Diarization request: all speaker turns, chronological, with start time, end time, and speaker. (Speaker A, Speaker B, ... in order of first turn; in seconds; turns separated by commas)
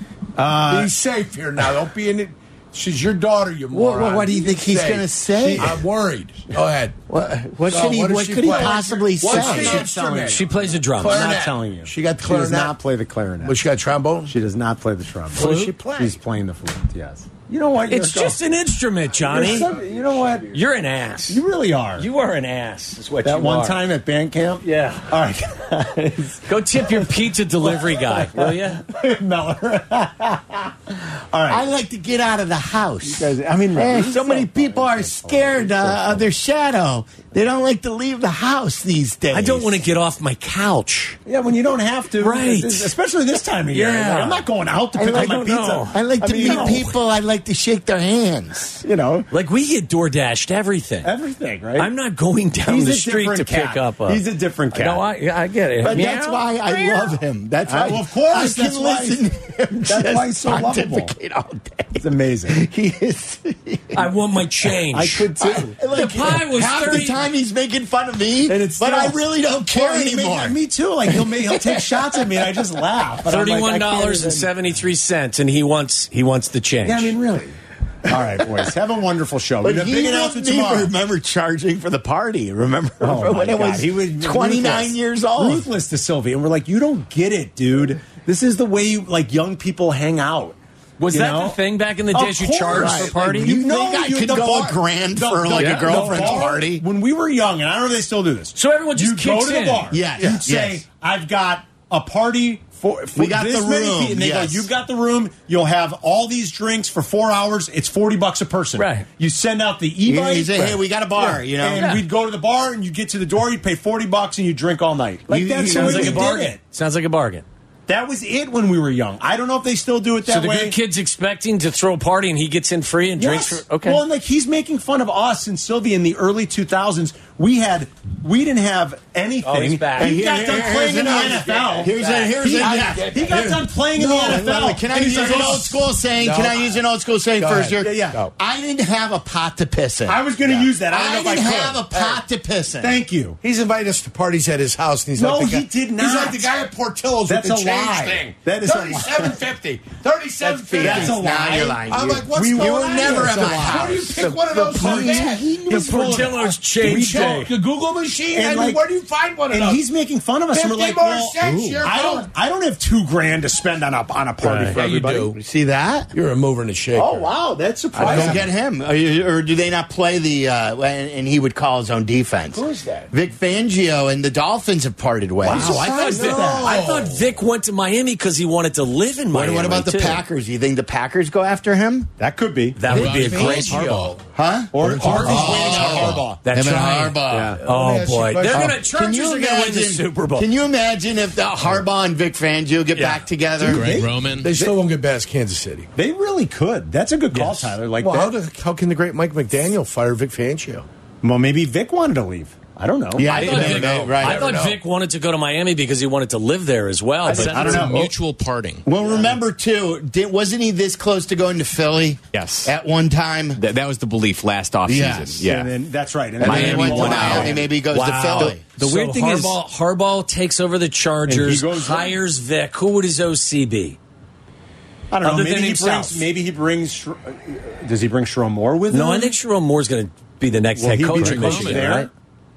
Speaker A: 0.3-0.9, Speaker B: 0.7-7.0, Speaker C: 3.7-5.8, Speaker C: 7.1-9.9, Speaker B: 7.6-12.8, Speaker A: 8.6-13.6, Speaker D: 10.3-11.3, Speaker B: 13.4-14.3, Speaker A: 14.2-18.4, Speaker D: 15.3-15.8, Speaker B: 15.3-16.2, Speaker D: 17.9-19.7, Speaker B: 19.3-20.2, Speaker A: 19.3-20.5, Speaker D: 20.5-21.4, Speaker A: 21.3-22.1, Speaker D: 22.0-23.8, Speaker A: 23.2-31.7, Speaker D: 24.6-25.1, Speaker D: 26.4-28.9, Speaker C: 31.5-39.8, Speaker A: 33.0-36.3, Speaker D: 39.3-41.2, Speaker A: 41.2-46.9, Speaker D: 42.2-42.9, Speaker D: 43.7-44.5, Speaker C: 44.9-48.8, Speaker D: 45.1-46.8, Speaker A: 48.8-49.3, Speaker D: 49.3-51.1, Speaker A: 51.0-51.9, Speaker D: 51.8-56.5, Speaker A: 52.6-55.0, Speaker C: 55.8-64.1, Speaker A: 57.6-59.2, Speaker A: 59.9-61.1, Speaker A: 62.0-62.6, Speaker D: 63.9-65.3, Speaker A: 64.9-65.8, Speaker C: 65.4-70.6, Speaker D: 65.9-67.2, Speaker A: 68.5-74.5, Speaker C: 71.1-72.0, Speaker D: 73.2-77.1, Speaker A: 76.8-80.9, Speaker C: 79.6-85.7, Speaker A: 83.0-90.6, Speaker D: 91.0-93.5, Speaker A: 91.1-91.6, Speaker A: 92.1-116.6, Speaker C: 92.7-96.8, Speaker D: 95.6-96.0, Speaker B: 96.1-96.4, Speaker D: 98.5-99.9, Speaker C: 99.9-100.8, Speaker C: 103.1-104.7, Speaker D: 108.8-109.0, Speaker C: 110.0-111.9, Speaker D: 111.8-112.0, Speaker C: 115.3-116.3, Speaker D: 115.6-117.4, Speaker A: 117.9-120.8, Speaker D: 120.2-124.0, Speaker A: 123.2-135.7, Speaker D: 129.4-132.2, Speaker C: 130.0-143.0, Speaker B: 130.1-136.8, Speaker B: 137.4-138.3, Speaker A: 137.8-138.2, Speaker A: 140.1-141.9, Speaker A: 142.8-143.4, Speaker B: 143.4-159.8, Speaker A: 145.2-146.6, Speaker A: 147.3-149.4, Speaker C: 150.4-156.4, Speaker A: 150.8-154.1, Speaker A: 154.8-155.2, Speaker D: 155.9-157.4, Speaker A: 156.8-157.5, Speaker A: 158.3-158.8, Speaker A: 159.5-165.3, Speaker B: 160.5-162.3, Speaker C: 161.4-161.8, Speaker B: 164.4-165.4, Speaker C: 165.3-166.1, Speaker B: 166.1-167.3, Speaker A: 166.9-168.4, Speaker B: 167.9-168.4, Speaker C: 168.0-175.9, Speaker B: 172.6-173.1, Speaker A: 175.4-176.8, Speaker D: 175.4-180.2, Speaker B: 175.8-177.2, Speaker C: 179.3-182.1, Speaker A: 182.2-183.1, Speaker D: 182.8-184.1, Speaker B: 182.9-184.2, Speaker E: 182.9-183.9, Speaker C: 184.3-187.6, Speaker A: 184.7-186.4, Speaker B: 184.8-186.2, Speaker D: 185.0-185.4, Speaker D: 186.4-190.5, Speaker A: 187.3-187.6, Speaker B: 187.6-188.8, Speaker C: 188.5-193.9, Speaker A: 193.6-194.8, Speaker E: 193.6-194.5, Speaker B: 194.4-195.9, Speaker A: 195.9-198.3, Speaker B: 197.4-200.8, Speaker A: 201.2-203.8, Speaker C: 203.1-204.5, Speaker D: 203.3-207.8, Speaker B: 203.3-204.8, Speaker A: 207.3-208.1, Speaker E: 207.3-208.8, Speaker B: 207.6-208.0, Speaker C: 208.8-213.6, Speaker A: 209.0-209.4, Speaker F: 212.3-212.7, Speaker F: 213.6-215.7, Speaker C: 214.8-215.5, Speaker A: 215.4-219.5, Speaker C: 216.4-218.6, Speaker D: 216.4-224.0, Speaker B: 216.6-217.2, Speaker A: 221.3-222.2, Speaker A: 225.1-229.3, Speaker D: 225.2-226.2, Speaker D: 228.9-232.1, Speaker A: 230.8-232.1, Speaker E: 231.2-231.9